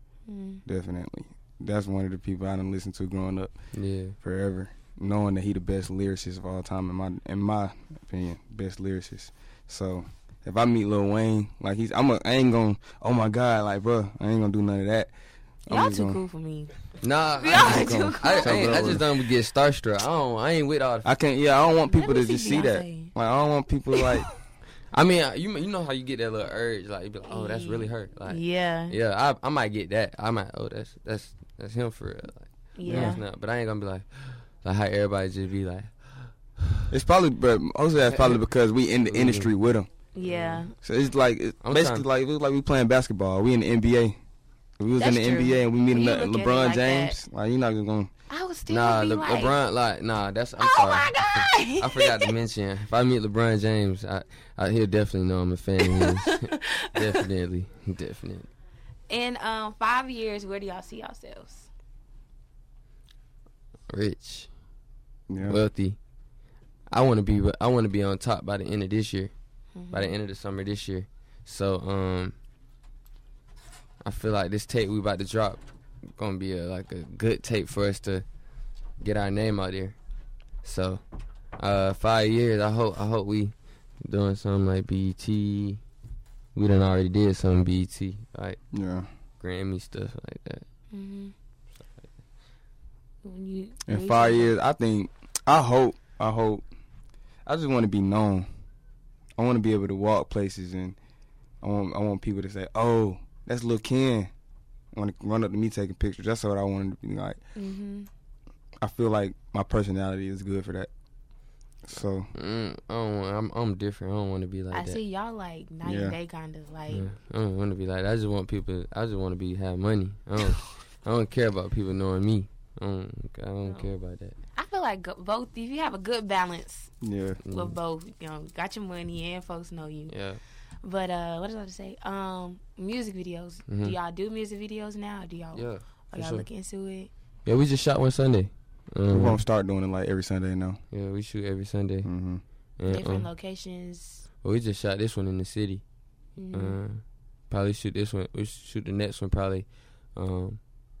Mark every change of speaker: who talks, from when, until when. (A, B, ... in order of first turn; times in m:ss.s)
0:00.3-0:00.6 A
0:00.6-0:03.5 B
0:03.7-0:04.1 C
0:04.2-0:15.1 B
0:15.7-0:16.2 B
0:15.7-0:16.7 A
0:17.0-0:21.1 C
0:17.4-0:19.0 A
0:17.5-0:19.0 B
0:21.0-0:24.3 B
0:21.9-0:23.1 A
0:24.9-0:35.9 C
0:27.2-0:29.0 A
0:32.8-0:33.2 A
0:32.9-0:33.1 B
0:36.9-0:39.9 B
0:39.1-0:39.5 C
0:40.1-0:40.7 A
0:40.2-0:40.6 C
0:40.8-0:44.2 B
0:41.6-0:42.0 C
0:44.8-0:48.1 B
0:45.0-0:47.2 A
0:48.3-0:49.6 A
0:48.7-0:56.4 C
0:50.6-0:52.3 A
0:55.8-0:57.2 A
0:56.9-0:58.5 C
0:59.1-1:01.7 A
1:03.9-1:04.5 C
1:05.3-1:05.6 B
1:05.4-1:06.0 C
1:06.9-1:09.3 C
1:09.8-1:10.2 A
1:09.9-1:12.3 C
1:14.0-1:15.6 C
1:16.2-1:18.2 C
1:19.0-1:20.0 C
1:20.6-1:21.0 C
1:21.6-1:25.8 C
1:26.5-1:28.6 C
1:28.7-1:29.1 B
1:29.4-1:30.6 C
1:30.9-1:31.3 A
1:33.2-1:34.5 A
1:33.8-1:36.6 B
1:37.4-1:38.5 B
1:39.4-1:41.0 B
1:41.6-1:44.3 B
1:44.9-1:47.4 B
1:47.6-1:48.1 A
1:48.8-1:50.9 B
1:51.8-1:52.3 B
1:52.4-1:55.0 C
1:54.7-1:57.1 A
1:55.8-1:56.2 B
1:56.9-2:04.4 C
2:03.6-2:03.9 A
2:04.6-2:06.9 A
2:07.0-2:07.4 B
2:07.4-2:07.8 C
2:07.5-2:10.2 A
2:10.1-2:10.4 C
2:10.8-2:17.1 A
2:13.7-2:13.9 C
2:15.5-2:16.4 C
2:17.4-2:19.4 C
2:19.1-2:20.8 B
2:20.9-2:22.1 C
2:22.0-2:22.4 B
2:22.8-2:23.3 C
2:22.8-2:24.2 A
2:24.4-2:25.8 C
2:26.4-2:26.8 A
2:26.5-2:30.6 C